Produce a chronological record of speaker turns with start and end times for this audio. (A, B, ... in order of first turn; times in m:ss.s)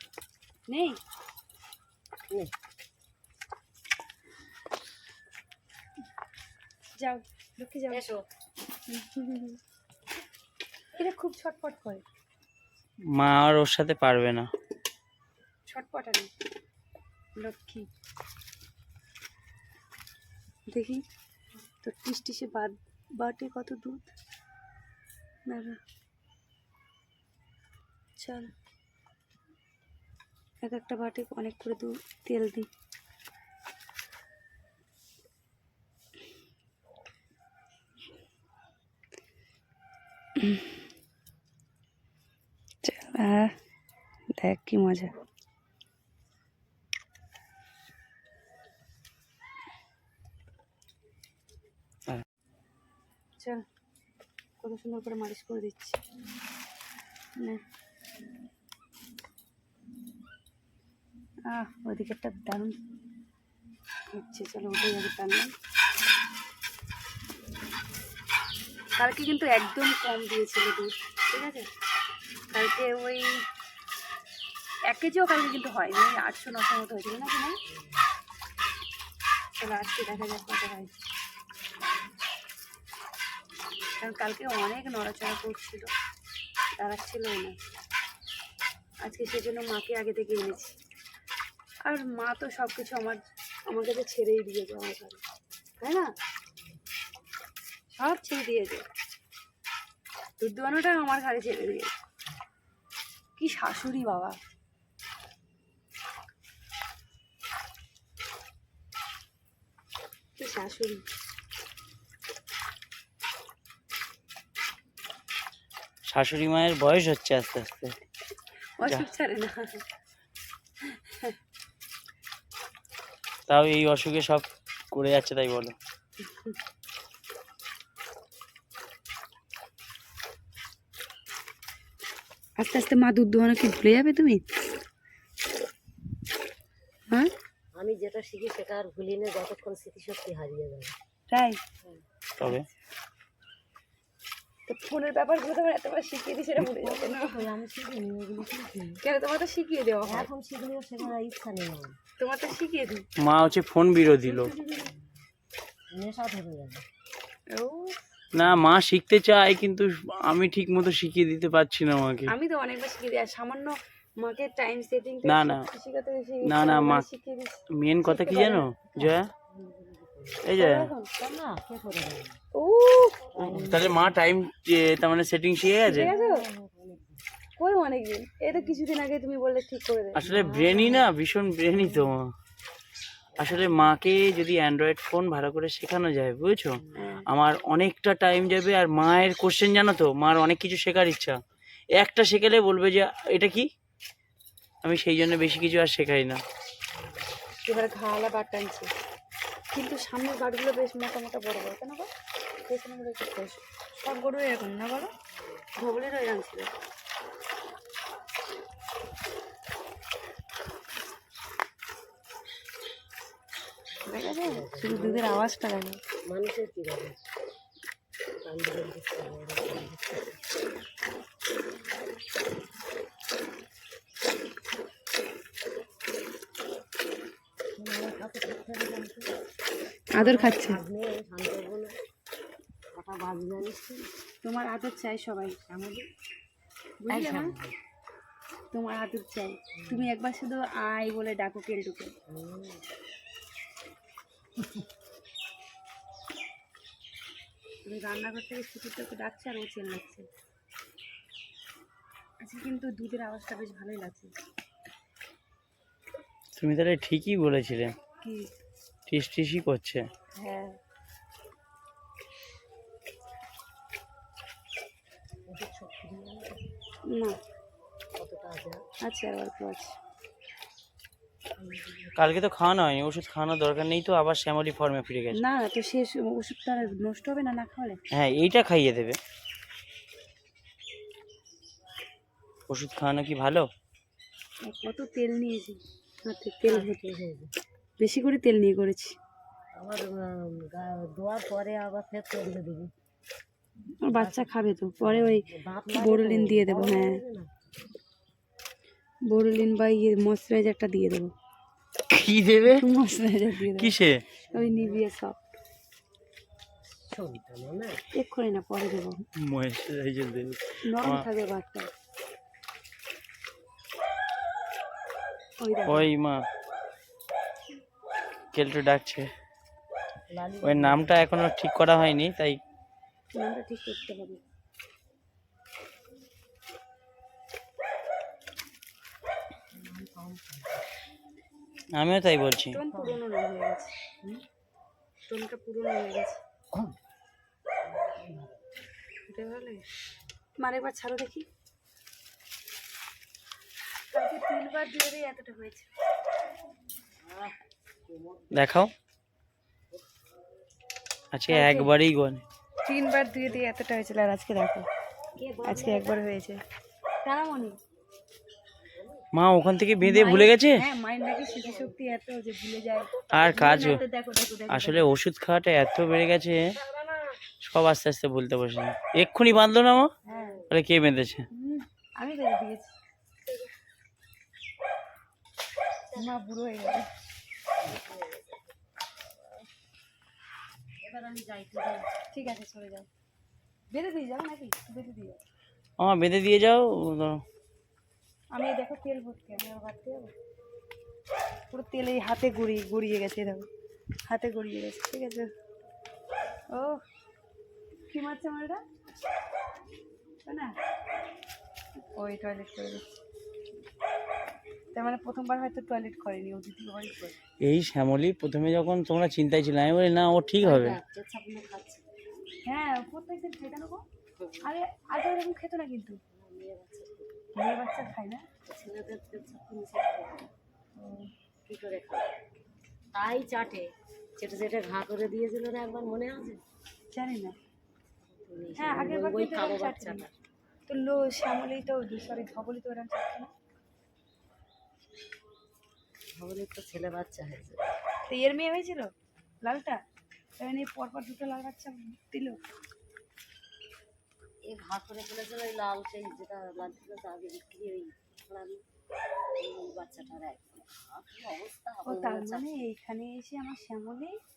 0:00.7-0:01.0 A
0:07.0-0:08.1 A
0:07.9-0:08.2 B
0:08.9-0:09.6 A
0:11.0-0:12.0 A
0:13.1-0:14.5 C
0:15.7-0:16.3 A
0:17.4-0:17.9 A
0:20.7-0:21.0 A
0:21.8-0:24.1 A
0:25.5-0:25.8 A
0:28.2-0:28.5 A
0:30.6-0:32.7 A
0:40.4-0:40.7 A
0:42.8-0:43.6 A
0:44.4-0:45.1 A
0:54.6-0:56.0 A
1:01.5-1:02.8 A
1:04.1-1:05.5 A
1:09.0-1:11.7 A
1:12.5-1:13.4 A
1:14.9-1:17.6 A
1:19.6-1:20.9 A
1:24.0-1:25.9 A
1:26.8-1:27.6 A
1:29.0-1:30.8 A
1:31.9-1:35.2 A
1:35.8-1:36.1 A
1:37.9-1:38.8 A
1:40.4-1:41.9 A
1:43.4-1:44.4 A
1:50.4-1:51.0 A
1:56.1-1:58.0 C
1:58.8-1:59.8 A
2:00.8-2:01.4 A
2:03.5-2:05.8 C
2:06.3-2:06.6 A
2:12.6-2:14.4 A
2:17.8-2:21.0 B
2:21.3-2:21.6 A
2:22.4-2:22.7 C
2:22.4-2:22.7 A
2:24.7-2:27.5 A
2:26.6-2:29.0 B
2:29.0-2:30.3 A
2:30.0-2:32.0 B
2:32.2-2:33.1 A
2:33.2-2:34.5 C
2:34.3-2:35.0 B
2:35.9-2:36.9 B
2:37.5-2:38.0 A
2:38.3-2:42.3 C
2:42.3-2:48.7 A
2:45.2-2:45.7 C
2:46.4-2:47.1 C
2:47.7-2:49.3 C
2:48.9-2:50.4 B
2:50.4-2:50.9 C
2:50.6-2:51.1 A
2:51.2-2:52.4 B
2:52.6-2:53.4 A
2:53.4-2:54.2 B
2:53.4-2:56.1 C
2:55.9-2:56.4 A
2:55.9-2:57.2 B
2:57.6-3:00.2 A
2:58.5-2:58.8 B
3:00.2-3:02.3 C
3:00.2-3:01.1 B
3:01.8-3:02.2 B
3:03.4-3:04.0 B
3:03.4-3:11.4 C
3:06.8-3:07.2 B
3:07.0-3:07.3 A
3:12.0-3:13.7 C
3:14.8-3:16.4 C
3:17.0-3:17.3 B
3:17.6-3:18.9 A
3:19.7-3:22.1 A
3:22.7-3:25.1 A
3:25.8-3:26.7 A
3:34.1-3:36.0 A
3:34.1-3:35.5 B
3:36.3-3:37.2 B
3:38.4-3:40.4 B
3:47.8-3:49.3 B
3:50.1-3:50.8 A
3:50.2-3:52.0 B
3:52.9-3:54.1 B
3:54.4-3:55.6 A
3:55.7-3:56.1 B
3:57.0-3:57.5 A
3:57.1-3:57.8 B
3:58.7-4:02.1 A
3:59.8-4:00.1 B
4:02.3-4:02.8 B
4:07.8-4:10.3 A
4:12.4-4:14.3 A
4:16.6-4:17.9 C
4:18.2-4:18.5 A
4:19.1-4:20.0 C
4:20.4-4:20.8 A
4:25.5-4:26.6 B
4:27.1-4:27.4 A
4:28.2-4:28.8 B
4:29.0-4:29.9 A
4:31.6-4:32.2 B
4:32.2-4:35.4 C
4:35.3-4:38.0 A
4:38.1-4:39.2 C
4:42.7-4:43.7 C
4:44.6-4:47.0 A
4:46.6-4:47.5 B
4:48.0-4:49.2 A
4:49.7-4:52.9 B
4:54.0-4:57.2 A
4:54.1-4:57.5 B
4:59.3-5:01.3 A
5:02.1-5:02.9 C
5:02.7-5:03.9 A
5:03.6-5:04.2 C
5:04.5-5:05.0 B
5:04.5-5:05.4 A
5:07.1-5:08.0 B
5:08.1-5:09.2 A
5:09.4-5:11.2 C
5:10.8-5:11.9 A
5:15.6-5:16.1 A
5:15.9-5:16.4 C
5:18.5-5:19.3 C
5:20.3-5:21.3 B
5:20.6-5:22.6 C
5:23.4-5:24.4 A
5:29.8-5:30.9 B
5:32.0-5:32.8 C
5:32.7-5:33.9 A
5:32.9-5:33.2 B
5:35.3-5:36.4 A
5:37.9-5:38.7 B
5:39.3-5:39.8 A
5:40.6-5:41.5 A
5:44.1-5:45.9 A
5:47.2-5:48.7 B
5:48.5-5:48.9 C
5:51.3-5:52.4 C
5:51.5-5:51.9 A
5:52.8-5:54.9 A
5:55.4-5:56.2 B
5:55.6-5:56.6 A
5:57.2-5:57.8 A
5:58.9-5:59.3 B
5:59.3-6:00.8 C
6:00.0-6:05.1 A
6:01.4-6:02.0 B
6:03.0-6:04.1 B
6:03.3-6:04.0 C
6:04.7-6:06.8 C
6:06.6-6:07.4 B
6:07.6-6:10.1 C
6:10.3-6:10.6 A
6:10.3-6:10.7 B
6:10.7-6:11.4 C
6:11.5-6:12.9 A
6:16.2-6:17.1 A
6:17.8-6:18.7 B
6:21.0-6:22.3 B
6:22.3-6:23.1 A
6:23.9-6:25.4 A
6:26.0-6:27.4 C
6:28.5-6:30.3 A
6:31.7-6:33.7 A
6:34.3-6:35.5 A
6:36.7-6:37.0 A
6:38.1-6:38.8 A
6:40.5-6:40.7 A
6:42.1-6:43.1 A
6:44.9-6:47.4 A
6:47.6-6:51.0 C
6:50.6-6:52.1 B
6:52.7-6:54.0 A
6:54.6-6:56.2 A
6:56.3-6:57.5 B
6:57.6-6:58.5 A
6:58.7-7:00.5 B
7:01.0-7:01.3 A
7:01.7-7:02.3 B
7:03.1-7:06.6 B
7:07.1-7:07.6 A
7:08.3-7:10.3 B
7:08.8-7:10.3 A
7:10.9-7:13.5 A
7:16.4-7:17.9 B
7:18.3-7:19.1 A
7:19.6-7:20.0 A
7:20.6-7:22.6 A
7:24.7-7:28.8 B
7:29.6-7:32.7 B
7:32.1-7:34.4 A